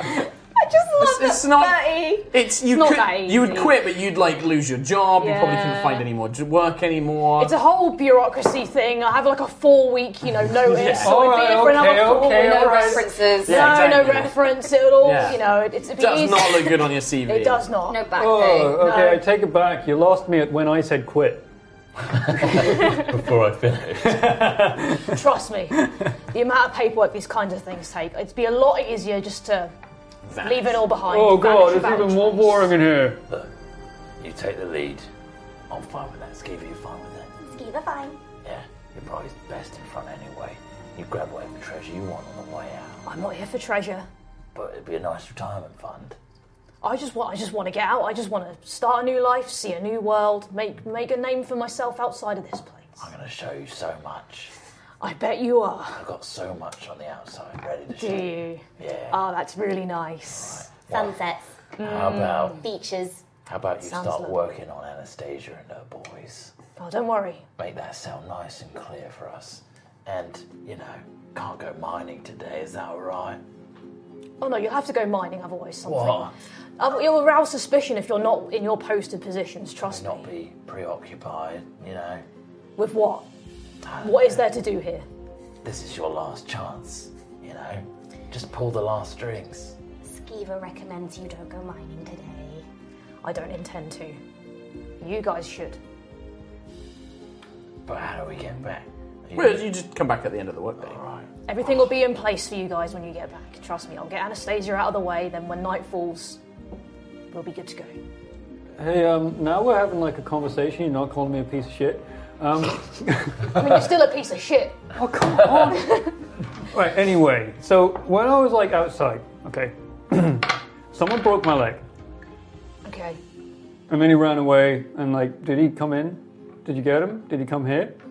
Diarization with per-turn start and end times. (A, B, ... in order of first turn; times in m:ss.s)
0:00.6-0:01.1 A
0:01.0-0:07.5 B
0:01.0-0:02.3 C
0:02.6-0:03.8 A
0:05.2-0:06.1 A
0:07.4-0:18.1 A
0:10.5-0:11.2 B
0:11.0-0:13.1 D
0:12.1-0:13.9 C
0:13.4-0:17.7 B
0:17.8-0:19.1 C
0:18.1-0:21.4 D
0:18.8-0:19.2 A
0:22.1-0:24.7 E
0:24.0-0:25.1 D
0:25.0-0:29.7 A
0:30.2-0:30.9 B
0:30.4-0:32.7 A
0:31.1-0:33.2 D
0:34.2-0:35.1 E
0:35.7-0:37.3 E
0:37.4-0:38.2 C
0:38.4-0:43.0 E
0:43.0-0:44.1 A
0:44.5-0:46.2 E
0:46.8-0:53.0 A
0:53.0-0:54.5 E
0:55.0-0:56.0 A
0:56.0-0:59.2 E
0:57.9-1:00.6 A
1:00.3-1:01.2 E
1:00.9-1:01.4 C
1:01.8-1:02.6 A
1:01.8-1:02.6 E
1:02.6-1:03.2 C
1:03.4-1:06.5 E
1:03.8-1:04.4 A
1:06.8-1:07.4 A
1:07.6-1:13.4 E
1:14.4-1:20.3 A
1:15.8-1:16.3 E
1:19.8-1:22.2 E
1:22.8-1:23.2 A
1:23.8-1:24.4 E
1:24.0-1:25.0 A
1:25.6-1:29.8 E
1:30.0-1:32.6 C
1:33.2-1:34.2 A
1:35.0-1:35.8 A
1:37.8-1:39.7 E
1:39.3-1:41.0 B
1:40.8-1:41.3 E
1:41.5-1:46.4 A
1:47.3-1:48.0 A
1:48.8-1:53.6 D
1:53.5-1:54.8 A
1:55.0-1:56.0 D
1:55.6-1:56.1 A
1:56.7-2:01.8 D
2:02.8-2:03.2 A
2:03.9-2:08.0 D